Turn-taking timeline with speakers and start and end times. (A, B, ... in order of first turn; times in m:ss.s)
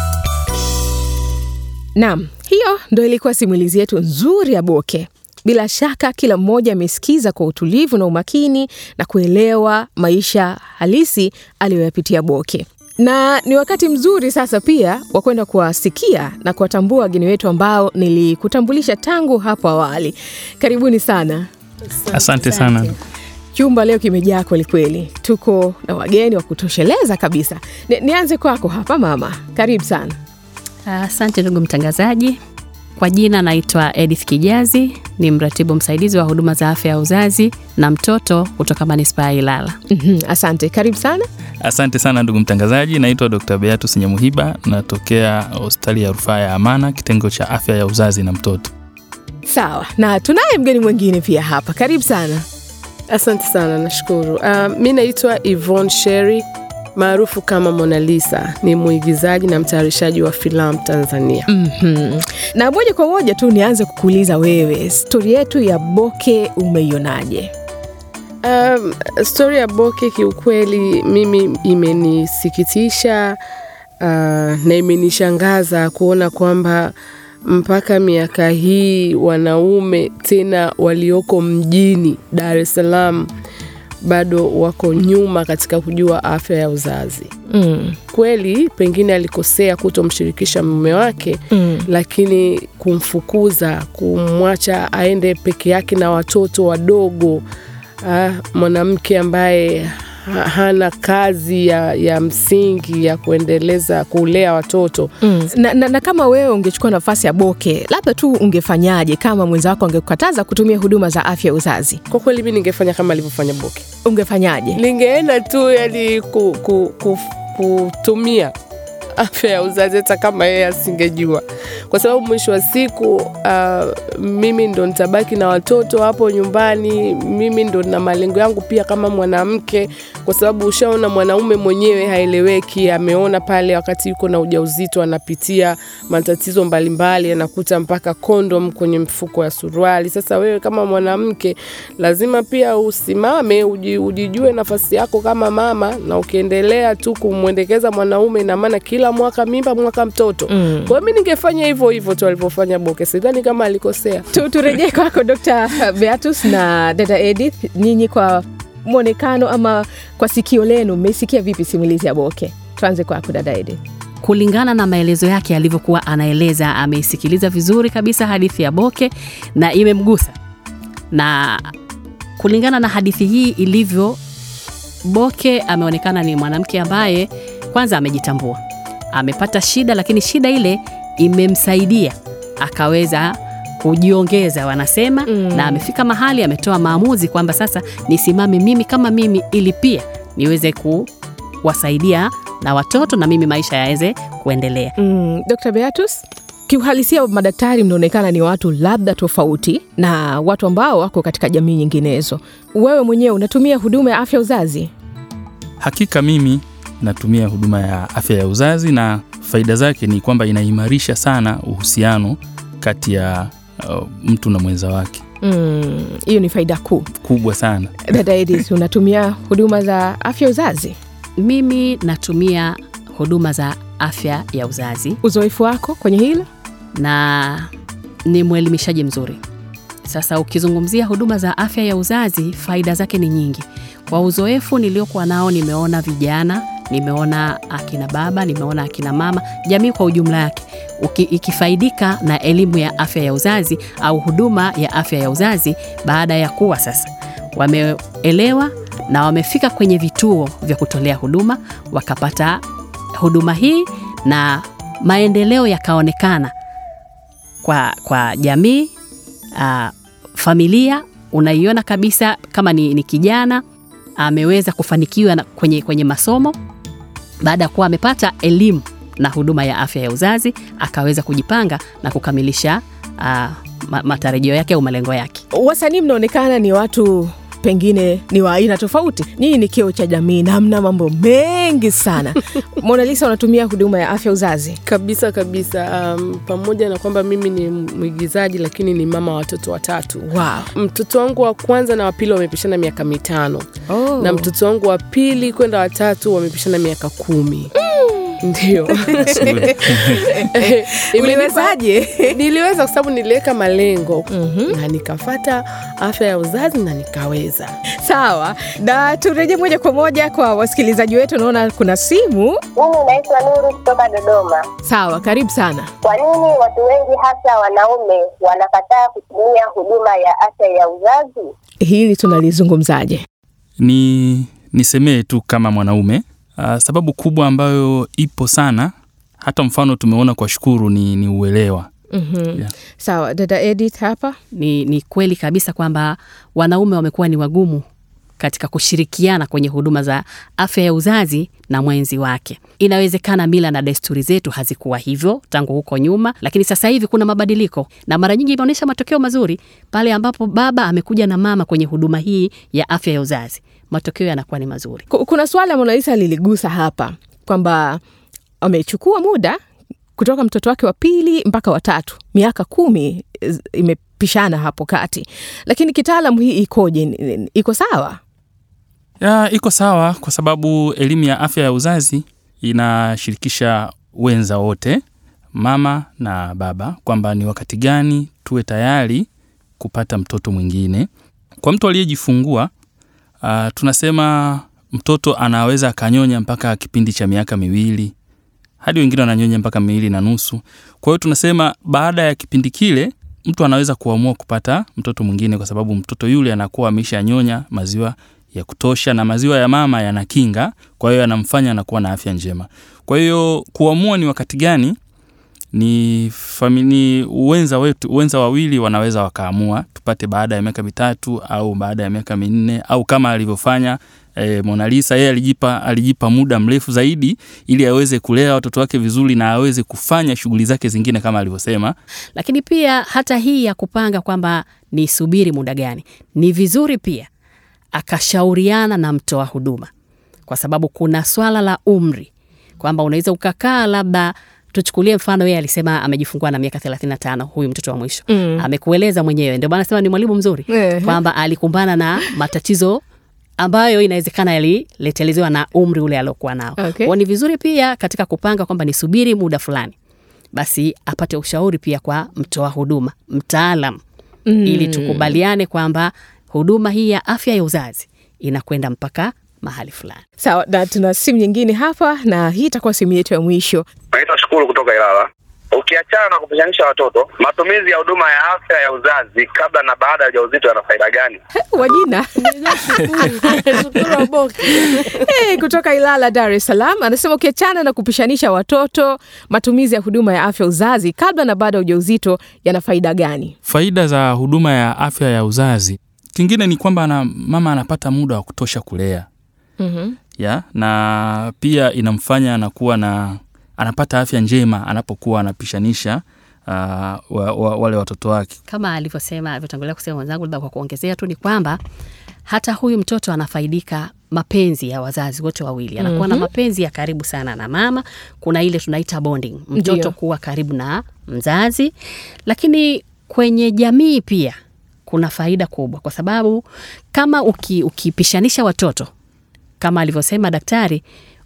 0:02.0-0:21.5 A
0:22.0-0:22.8 B
0:22.1-0:23.0 C
0:23.5-0:30.2 A
0:30.9-0:32.4 D
0:33.0-0:39.8 D
0:39.9-0:41.3 A
0:41.6-0:48.7 C
0:49.5-0:52.4 A
0:53.1-0:56.4 B
0:57.0-1:01.5 B
1:01.5-1:07.5 A
1:08.4-1:13.4 B
1:14.0-1:16.9 B
1:17.5-1:23.3 B
1:24.0-1:27.3 B
1:27.5-1:28.0 A
1:28.1-1:37.4 B
1:31.5-1:31.8 A
1:38.0-1:45.1 B
1:45.2-1:52.0 A
1:52.1-1:53.8 B
1:54.1-1:54.8 A
1:54.8-1:58.5 B
1:59.2-2:34.3 B
2:30.5-2:30.9 A
2:34.3-2:43.8 A
2:44.2-2:50.4 D
2:51.1-2:51.7 D
2:52.4-2:54.2 D
2:55.0-2:58.6 D
2:59.1-3:11.1 D
3:05.3-3:05.8 A
3:11.6-3:15.0 D
3:15.0-3:24.9 A
3:25.8-3:35.2 C
3:35.4-3:37.1 A
3:37.2-3:38.0 C
3:38.1-3:41.0 A
3:41.4-3:45.2 D
3:45.2-3:46.5 A
3:47.0-3:47.7 D
3:48.3-3:49.4 D
3:50.1-4:12.6 D
4:13.2-4:16.5 D
4:17.6-4:18.9 D
4:19.6-4:23.6 D
4:24.2-4:26.6 D
4:27.4-4:35.4 D
4:35.5-4:44.8 A
4:44.9-4:53.7 B
4:50.3-4:50.7 A
4:53.9-4:54.5 A
4:54.2-4:57.7 B
4:57.8-5:02.4 A
4:58.4-4:59.8 B
4:59.4-5:00.3 C
5:00.5-5:07.7 B
5:04.3-5:04.8 A
5:08.0-5:12.6 A
5:12.8-5:14.6 E
5:14.9-5:15.9 A
5:16.0-5:21.5 E
5:21.8-5:23.2 A
5:23.8-5:31.9 C
5:32.1-5:34.4 A
5:34.5-5:37.8 D
5:38.4-5:55.0 D
5:55.1-5:58.0 A
5:58.6-5:59.6 A
6:00.2-6:08.2 A
6:09.2-6:15.0 C
6:15.6-6:19.3 C
6:19.8-6:21.1 C
6:21.6-6:22.7 C
6:23.4-6:28.1 C
6:28.8-6:45.0 C
6:45.7-7:02.0 C
7:02.4-7:07.3 D
7:08.0-7:09.9 D
7:10.5-7:12.3 D
7:12.8-7:23.0 D
7:18.3-7:18.6 A
7:20.7-7:21.2 A
7:23.6-7:30.0 D
7:26.8-7:27.1 A
7:30.5-7:34.0 D
7:34.5-7:35.4 A
7:34.6-7:40.2 D
7:40.4-7:43.9 A
7:44.1-7:51.4 F
7:51.6-7:54.2 A
7:52.6-7:55.2 B
7:54.8-8:03.6 A
8:03.7-8:09.3 C
8:09.8-8:10.2 A
8:10.4-8:18.6 C
8:18.7-8:21.8 D
8:22.5-8:31.9 D
8:26.0-8:26.5 A
8:29.8-8:30.1 A
8:32.5-8:36.6 D
8:37.1-8:39.1 D
8:39.8-8:41.0 D